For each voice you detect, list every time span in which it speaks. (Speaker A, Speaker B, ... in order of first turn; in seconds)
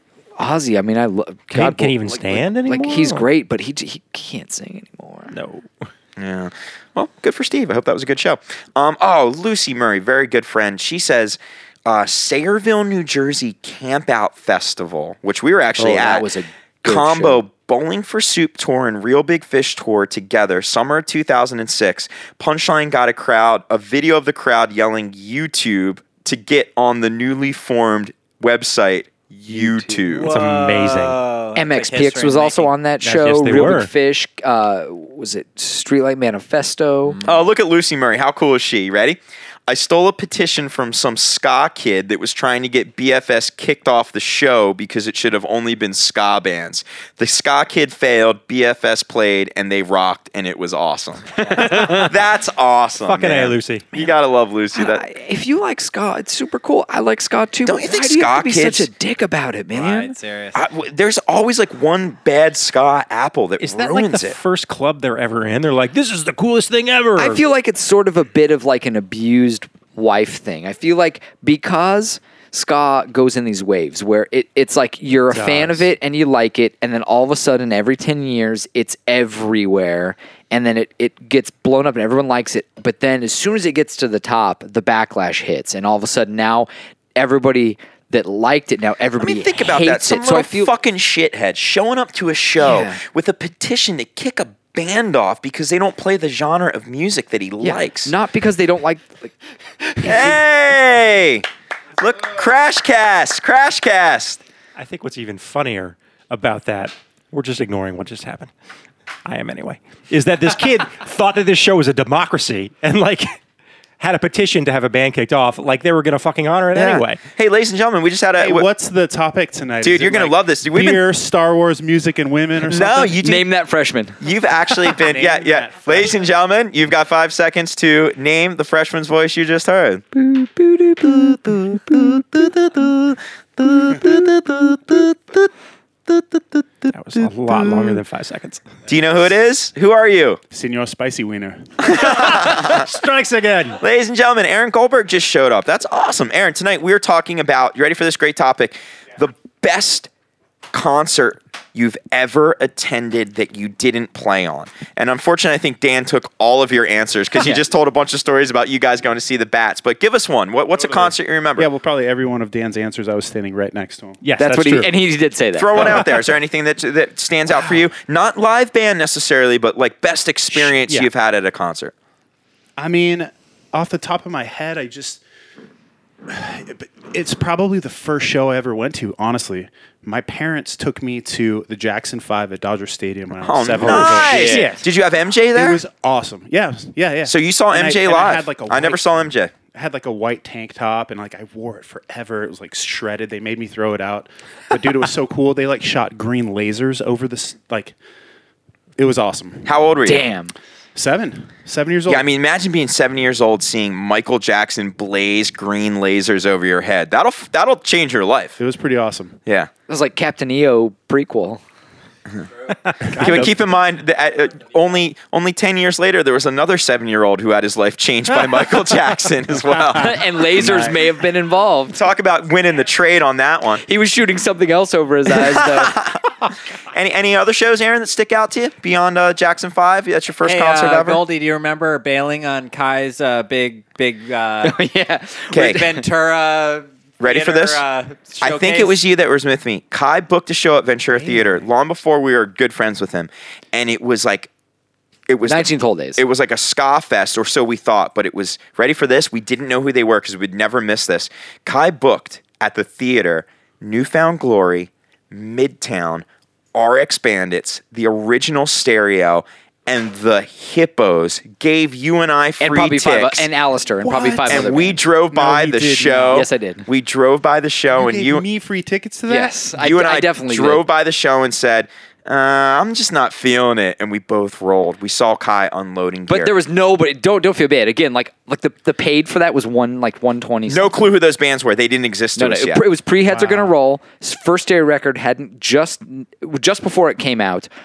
Speaker A: 0.4-5.3, 15.8-17.4, 29.5-30.1, 31.6-37.2, 54.8-60.2, 67.2-90.7, 92.6-93.0, 97.6-100.4, 123.2-124.2, 130.1-132.3, 164.4-166.0, 200.1-200.5, 209.9-211.6, 219.9-222.0, 223.8-226.0, 234.6-236.1, 245.5-246.2, 262.6-265.0, 266.3-266.9, 269.3-270.9, 276.3-281.0, 282.4-287.7
Speaker B: 1.5-3.3, 5.3-5.9, 30.3-31.2, 33.0-33.9, 51.8-52.1, 53.0-53.9, 63.6-67.4, 75.3-75.9, 104.8-108.5, 109.3-113.4, 114.0-117.2, 136.9-138.7, 141.9-143.8, 164.2-164.9, 170.5-171.1, 183.8-184.8, 212.8-213.5
Speaker C: 6.2-16.3, 16.8-30.4, 37.2-55.0, 57.6-58.9, 60.5-64.4, 89.2-98.1, 100.0-101.5, 102.0-104.4, 116.7-118.7, 119.8-121.0, 122.6-123.5, 124.2-130.0, 131.1-135.5, 136.1-136.6, 138.9-140.4, 141.8-142.9, 143.8-150.1, 150.7-161.7, 165.6-171.9, 183.4-185.8, 187.2-189.5, 199.7-200.3, 202.1-208.6, 213.2-220.8, 221.9-223.8, 225.3-231.2, 235.5-235.8, 237.2-237.8, 238.4-244.5, 245.3-263.5, 264.5-268.5, 269.8-276.6, 280.7-282.9
Speaker D: 30.1-32.7, 37.1-37.4, 59.7-60.6, 230.4-234.8, 235.5-239.0
Speaker E: 118.4-123.2, 125.0-126.2, 140.5-142.1, 160.8-164.2, 172.8-175.2, 176.3-184.8, 185.5-198.0, 199.0-199.8, 200.9-202.3, 208.6-209.4, 213.1-213.5, 220.6-220.9, 264.0-266.5, 267.9-269.7, 283.3-283.7